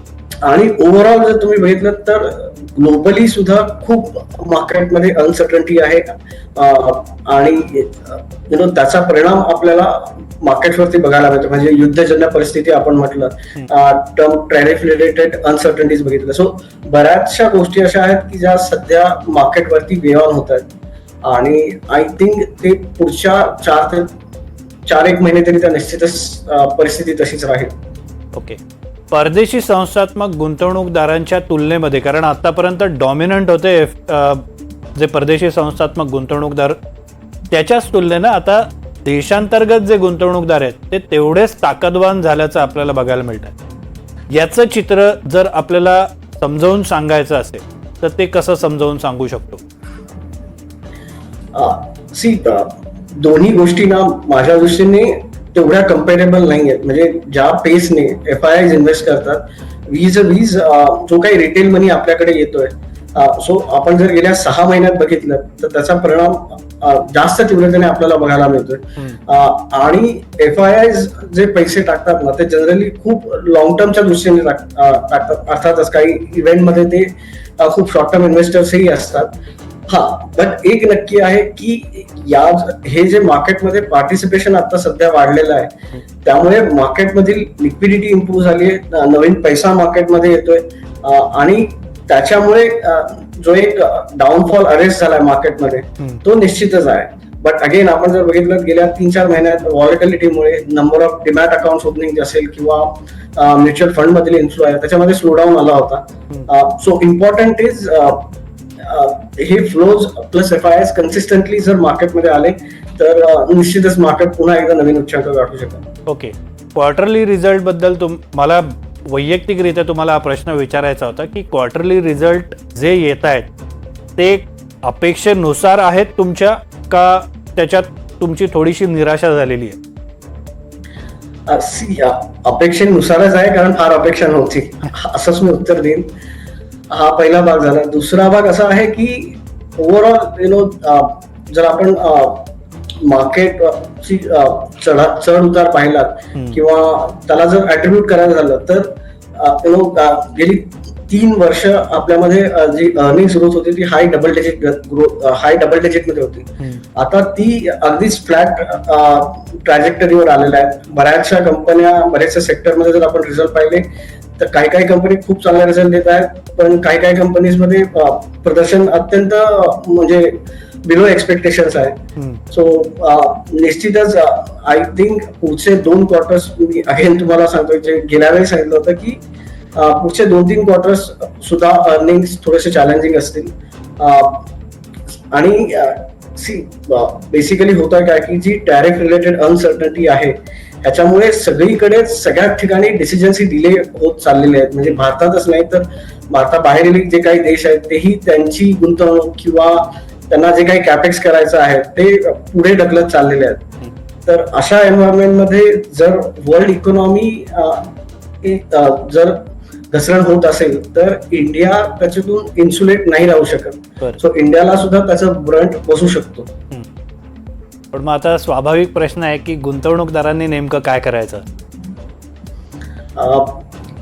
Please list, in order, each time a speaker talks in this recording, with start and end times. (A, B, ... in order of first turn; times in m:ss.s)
0:00.4-0:20.7 A
0:21.2-0:24.1 A
0:24.8-0:27.7 A
0:28.3-0:28.6 B
0:29.1-0:36.8 B
0:37.5-0:43.6 B
0:44.3-0:49.6 B
0:51.5-1:19.3 A
1:19.9-1:55.9 A
1:56.1-2:03.5 B
2:04.2-2:09.8 B
2:11.4-2:16.1 A
2:16.9-2:59.2 A
2:52.2-2:52.4 B
2:59.7-3:04.5 A
3:05.3-3:23.7 A
3:24.2-3:36.5 A
3:37.9-3:41.4 B
3:43.1-3:43.6 A